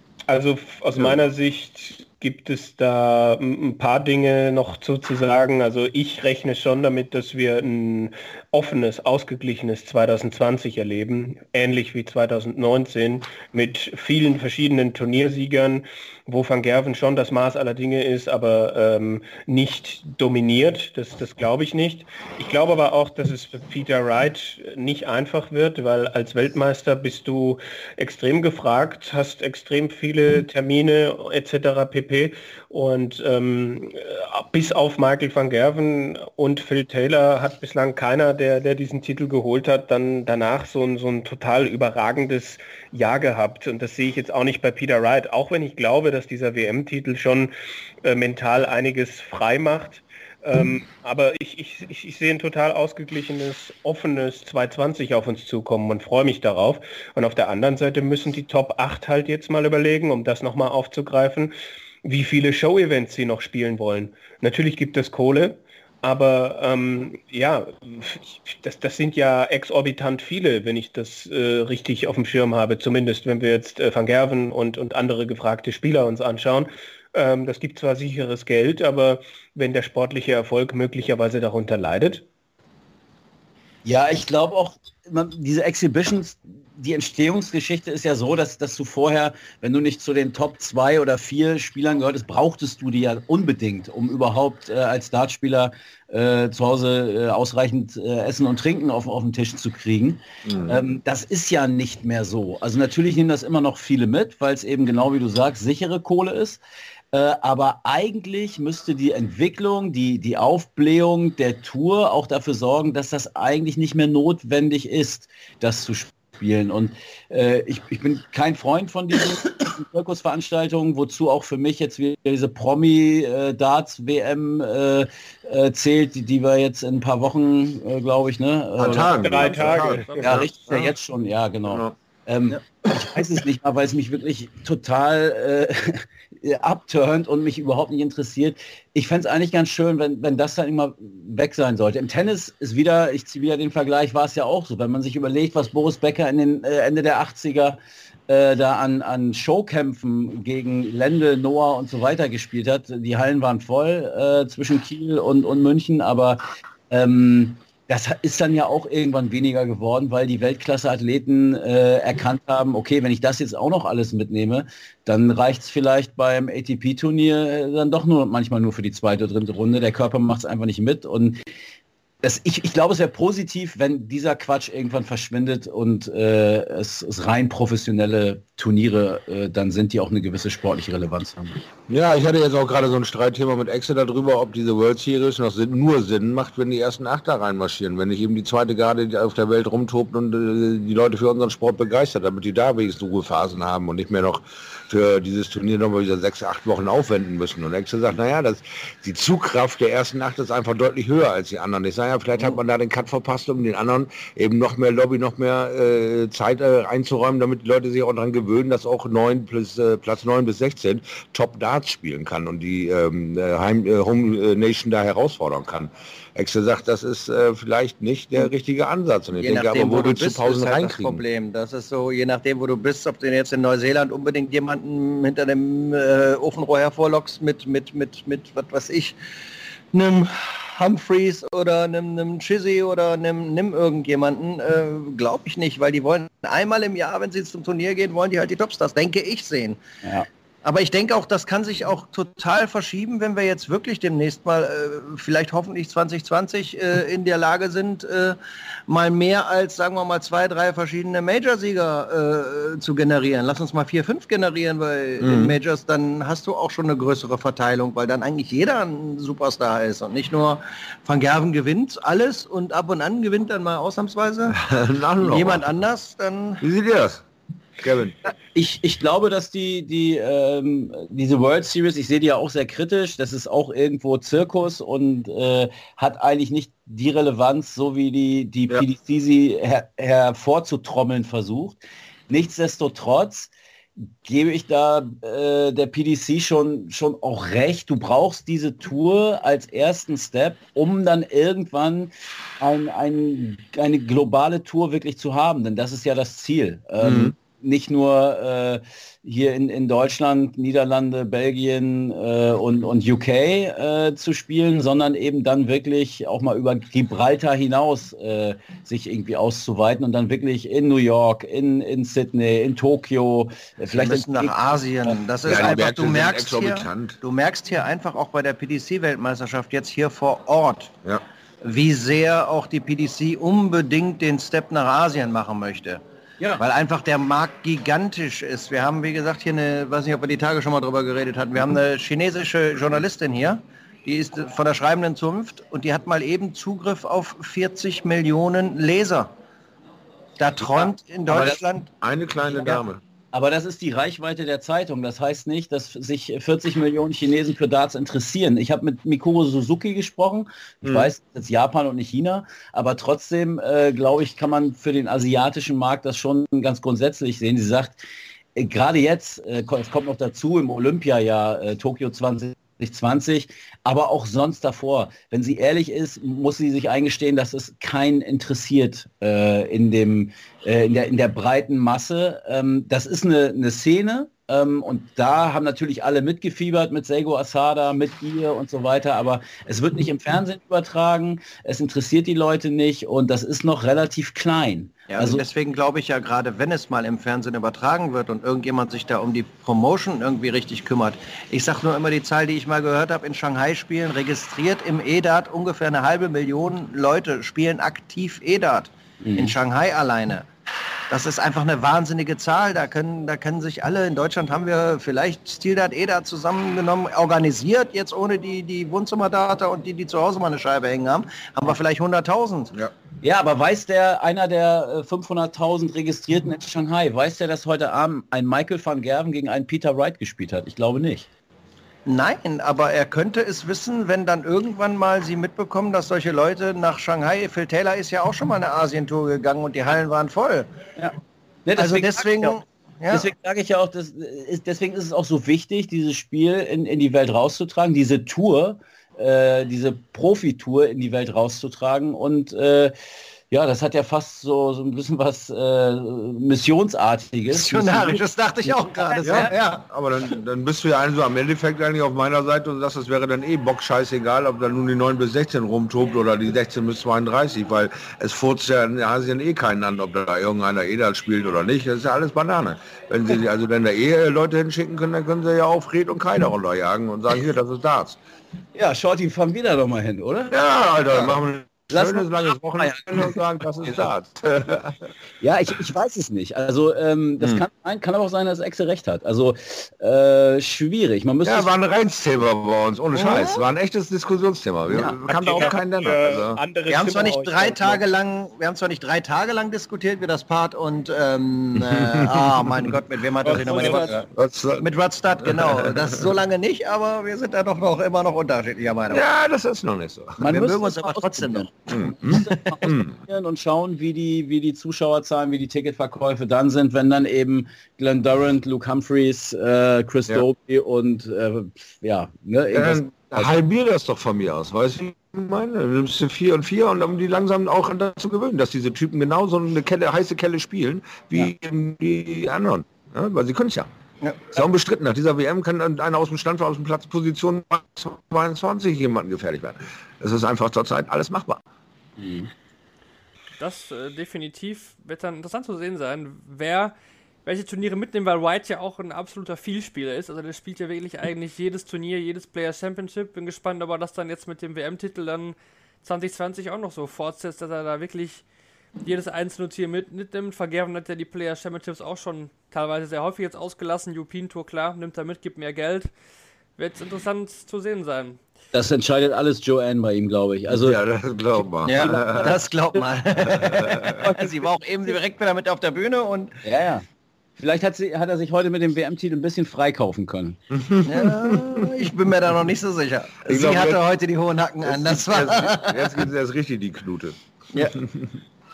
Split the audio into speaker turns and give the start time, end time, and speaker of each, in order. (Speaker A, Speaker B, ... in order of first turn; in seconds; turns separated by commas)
Speaker A: 0.3-82.2, Speaker B: 83.8-106.6, Speaker C: 100.5-100.8, Speaker B: 107.1-129.2, Speaker C: 128.8-130.9, Speaker A: 128.9-130.4, Speaker D: 129.2-130.4, Speaker B: 130.2-171.4, Speaker C: 131.7-132.0, Speaker B: 172.2-181.6, Speaker C: 181.9-221.2, Speaker E: 219.4-229.1, Speaker E: 229.9-239.8, Speaker B: 240.0-240.3, Speaker E: 240.6-248.4, Speaker E: 248.9-264.6, Speaker C: 255.2-255.6, Speaker C: 264.5-265.7, Speaker E: 265.2-266.6, Speaker C: 266.6-267.2, Speaker C: 267.8-268.2, Speaker B: 268.5-283.5, Speaker B: 284.2-314.5, Speaker C: 297.0-297.3, Speaker E: 313.9-320.9, Speaker C: 315.4-317.2, Speaker E: 321.6-326.0, Speaker E: 326.6-339.3, Speaker E: 340.4-341.9, Speaker C: 341.2-343.0, Speaker E: 342.5-342.8, Speaker B: 343.3-358.0, Speaker C: 350.8-351.1, Speaker B: 358.5-385.4, Speaker E: 385.1-400.5, Speaker B: 399.2-399.5, Speaker E: 401.1-412.7, Speaker B: 413.2-421.3, Speaker E: 422.1-430.7, Speaker B: 431.0-432.6, Speaker E: 431.8-433.3, Speaker B: 433.1-442.9, Speaker B: 443.5-449.5, Speaker E: 447.5-449.8, Speaker C: 449.2-468.2, Speaker B: 468.7-470.5, Speaker C: 470.5-475.1, Speaker B: 471.9-473.4, Speaker B: 475.4-481.7, Speaker C: 481.4-486.6, Speaker E: 483.1-483.6, Speaker E: 484.9-485.6, Speaker A: 485.3-488.0, Speaker E: 486.9-494.3, Speaker C: 491.8-492.9, Speaker A: 493.4-494.2, Speaker C: 494.3-494.9, Speaker E: 494.8-499.2, Speaker C: 495.4-496.2, Speaker C: 499.1-500.4, Speaker B: 500.4-513.5, Speaker E: 500.4-501.7, Speaker C: 501.9-503.1, Speaker C: 512.7-523.9, Speaker C: 524.5-531.6, Speaker B: 532.2-532.5, Speaker D: 533.6-536.9, Speaker D: 537.4-548.4, Speaker D: 549.0-556.1, Speaker D: 556.8-558.4, Speaker B: 558.7-561.0, Speaker C: 560.7-562.5, Speaker E: 561.8-566.5, Speaker B: 562.0-562.5, Speaker C: 563.4-564.2, Speaker B: 566.6-570.6, Speaker C: 570.7-572.0, Speaker E: 571.0-576.2, Speaker C: 573.5-574.0, Speaker C: 574.8-578.3, Speaker E: 577.7-578.0